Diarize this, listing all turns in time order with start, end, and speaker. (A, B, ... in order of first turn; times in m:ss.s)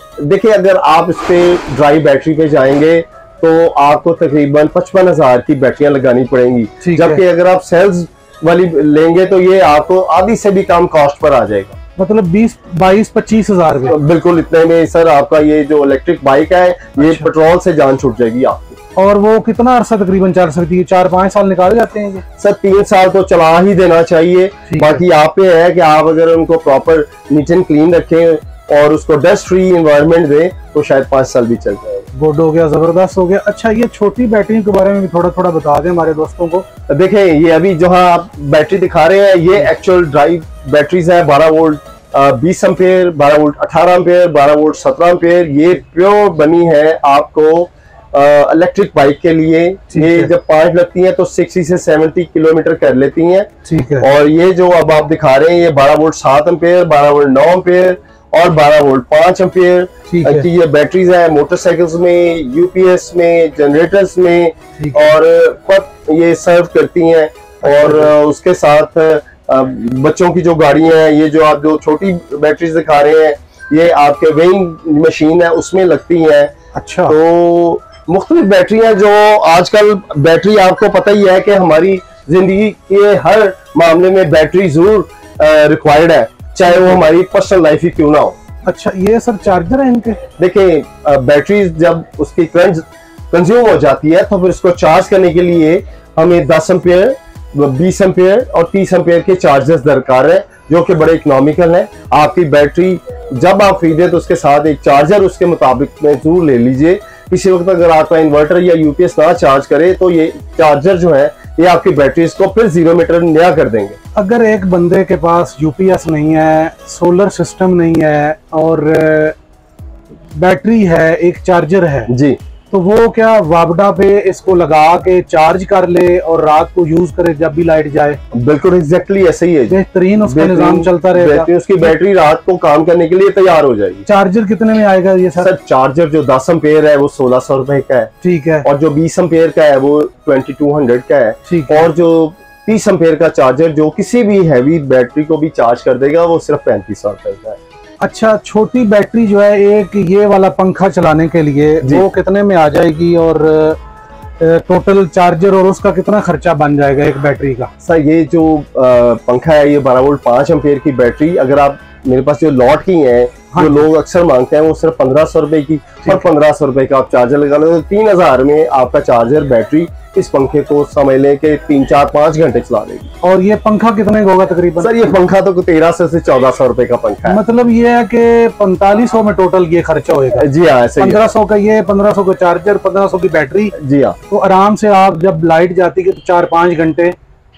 0:00.2-0:11.8 A
0:06.8-0:07.2 B
0:12.0-0:14.0 B
0:13.9-0:18.8 A
0:17.0-0:17.2 B
0:19.0-0:22.2 B
0:22.4-0:32.0 A
0:24.7-0:25.0 B
0:32.1-0:36.6 B
0:36.9-0:53.5 A
0:49.9-0:50.3 B
0:53.6-0:54.1 B
0:54.0-1:16.5 A
1:00.1-1:00.5 B
1:07.7-1:08.1 B
1:16.7-1:17.2 B
1:17.1-1:28.4 A
1:26.7-1:26.9 B
1:28.6-1:30.2 B
1:30.4-1:54.0 A
1:54.1-1:59.4 B
2:00.4-2:02.1 B
2:02.1-2:02.4 A
2:02.7-2:08.2 B
2:08.3-2:14.0 A
2:09.7-2:11.9 B
2:14.0-2:15.5 B
2:15.4-2:18.1 A
2:18.2-2:18.6 B
2:18.6-2:27.6 A
2:21.5-2:21.9 B
2:28.0-2:33.8 B
2:34.4-2:37.7 B
2:37.8-2:53.1 A
2:43.5-2:43.8 B
2:53.2-2:55.0 B
2:54.8-2:57.4 A
2:57.2-3:00.5 B
3:00.4-3:01.3 A
3:01.0-3:03.7 B
3:03.8-3:04.2 A
3:04.3-3:07.1 B